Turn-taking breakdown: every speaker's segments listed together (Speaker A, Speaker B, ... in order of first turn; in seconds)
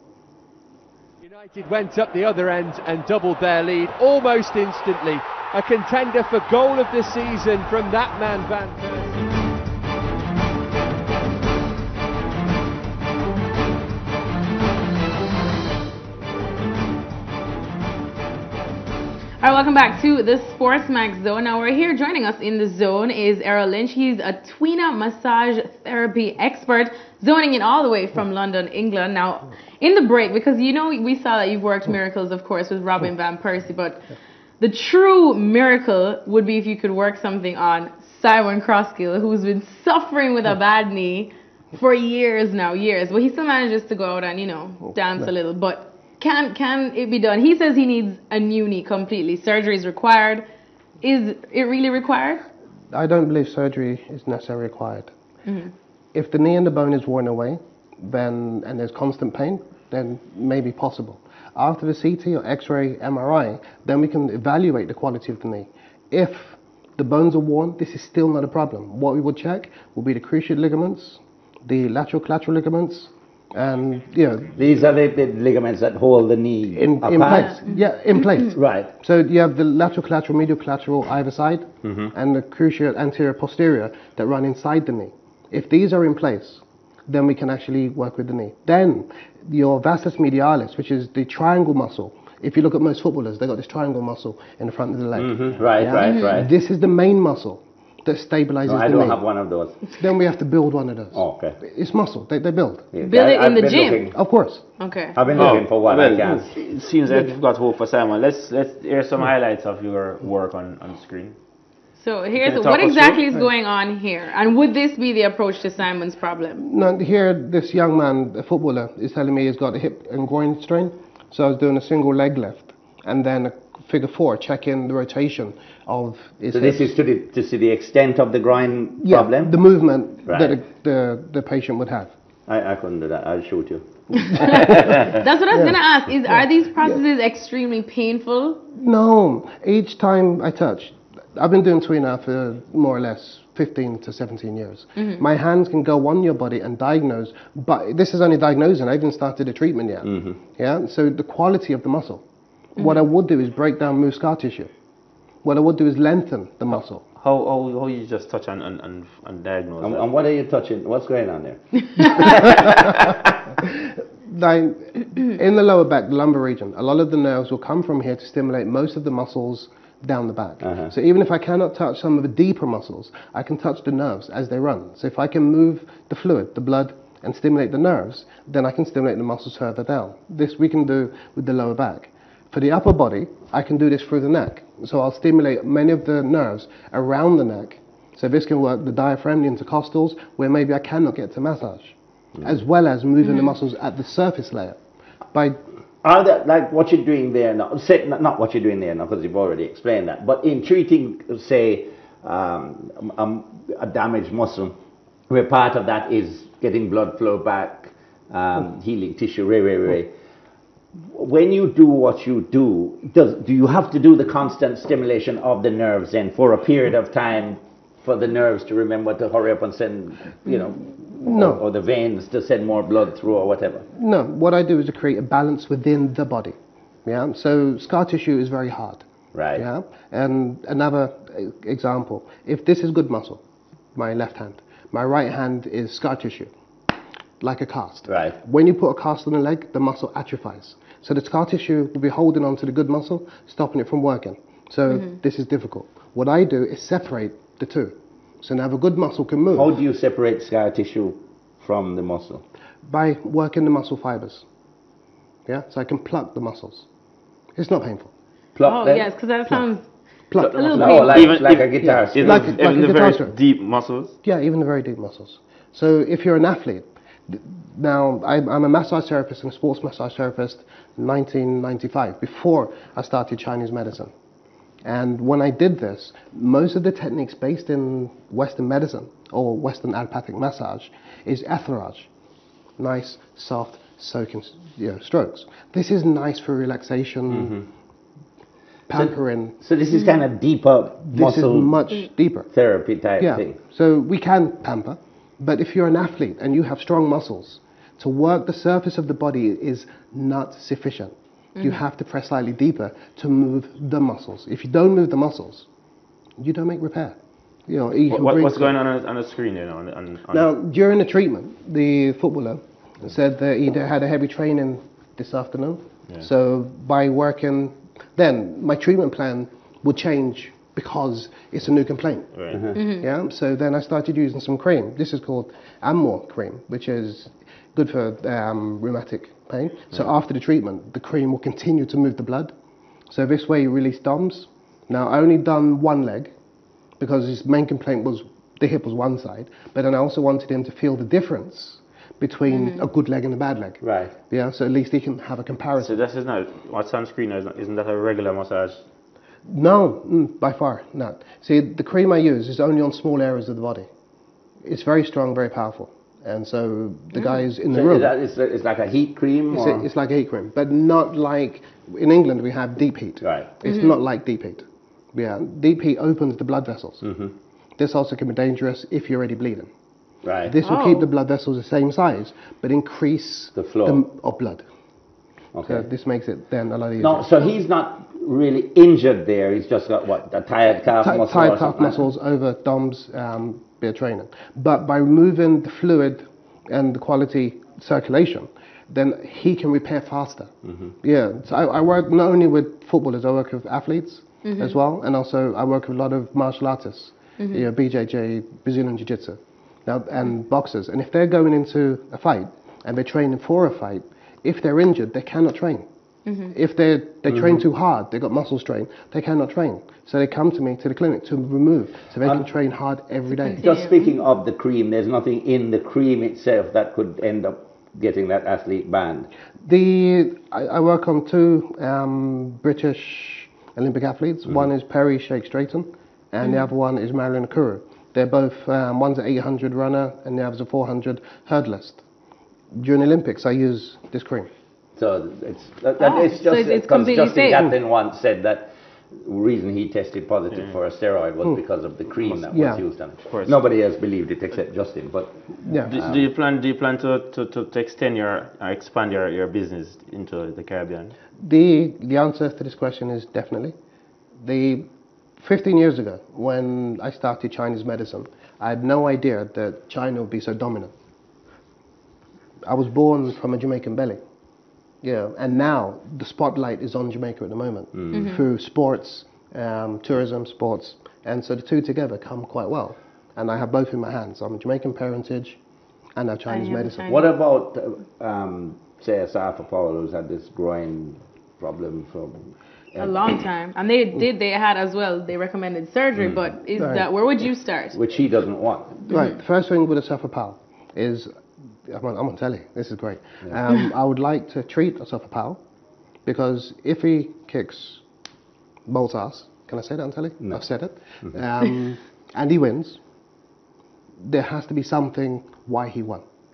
Speaker A: 1.2-9.2
Speaker B: 19.4-34.0, 34.6-50.5, 51.0-52.5, 55.5-55.7, 77.3-78.5, 103.0-104.1, 104.8-105.5, 112.0-116.6, 134.2-138.6, 144.9-145.2, 258.6-259.8, 260.4-261.4, 322.7-323.1, 342.5-342.8, 363.6-363.9, 370.6-371.1, 394.4-394.8, 397.4-397.6, 406.2-406.5, 413.6-414.1, 436.0-437.7, 468.1-468.4, 476.5-477.3, 483.0-488.0
Speaker C: 52.9-55.1, 56.1-74.5, 76.7-99.2, 100.0-102.9, 104.1-104.6, 116.6-126.9, 129.0-132.1, 134.4-135.8, 138.7-152.2, 152.7-154.7, 155.4-157.0, 163.6-194.8, 195.3-195.6, 221.2-221.6, 223.9-233.4, 233.9-236.5, 237.4-249.8, 252.8-254.4, 255.5-256.9, 257.6-258.1, 260.3-261.1, 261.8-263.4, 264.2-274.1, 274.8-282.1, 282.8-287.6, 288.9-289.6, 291.1-292.5, 293.2-305.7, 306.4-308.7, 310.3-332.5, 333.1-336.3, 337.0-346.0, 349.4-353.9, 354.6-358.1, 359.5-367.0, 367.8-369.7, 370.4-374.6, 375.6-377.4, 380.9-390.5, 391.0-405.9, 406.5-413.7, 419.6-432.0, 432.7-434.5, 442.5-442.8, 445.6-445.9, 451.4-453.7, 454.4-460.9, 462.6-464.2, 465.0-475.6, 476.2-477.1, 486.8-487.1, 489.1-491.3, 491.9-495.6, 496.2-498.0, 498.9-503.0, 504.2-506.2
Speaker D: 74.5-77.6, 78.5-78.9, 81.8-82.1, 95.1-96.5, 98.6-99.8, 101.1-101.6, 102.9-104.1, 105.1-106.5, 126.5-129.5, 130.3-130.6, 132.5-135.2, 150.1-150.4, 159.8-163.3, 170.6-170.9, 196.0-204.7, 205.3-210.1, 211.1-223.8, 229.3-229.6, 238.1-238.3, 249.5-252.4, 258.5-259.1, 260.4-262.5, 287.3-287.6, 288.9-291.7, 292.5-293.6, 343.8-344.1, 357.6-359.8, 363.2-363.5, 367.0-367.3, 370.2-370.5, 373.5-374.0, 375.5-375.8, 377.0-382.0, 413.6-419.3, 435.0-445.4, 445.9-446.2, 467.9-468.2, 477.1-482.4, 482.9-483.3, 486.2-486.4, 487.9-489.0
Speaker E: 105.3-111.3, 112.4-113.3, 157.2-160.1, 260.7-264.1, 308.1-310.5, 322.4-322.6, 345.8-348.8, 443.3-443.6, 445.8-451.1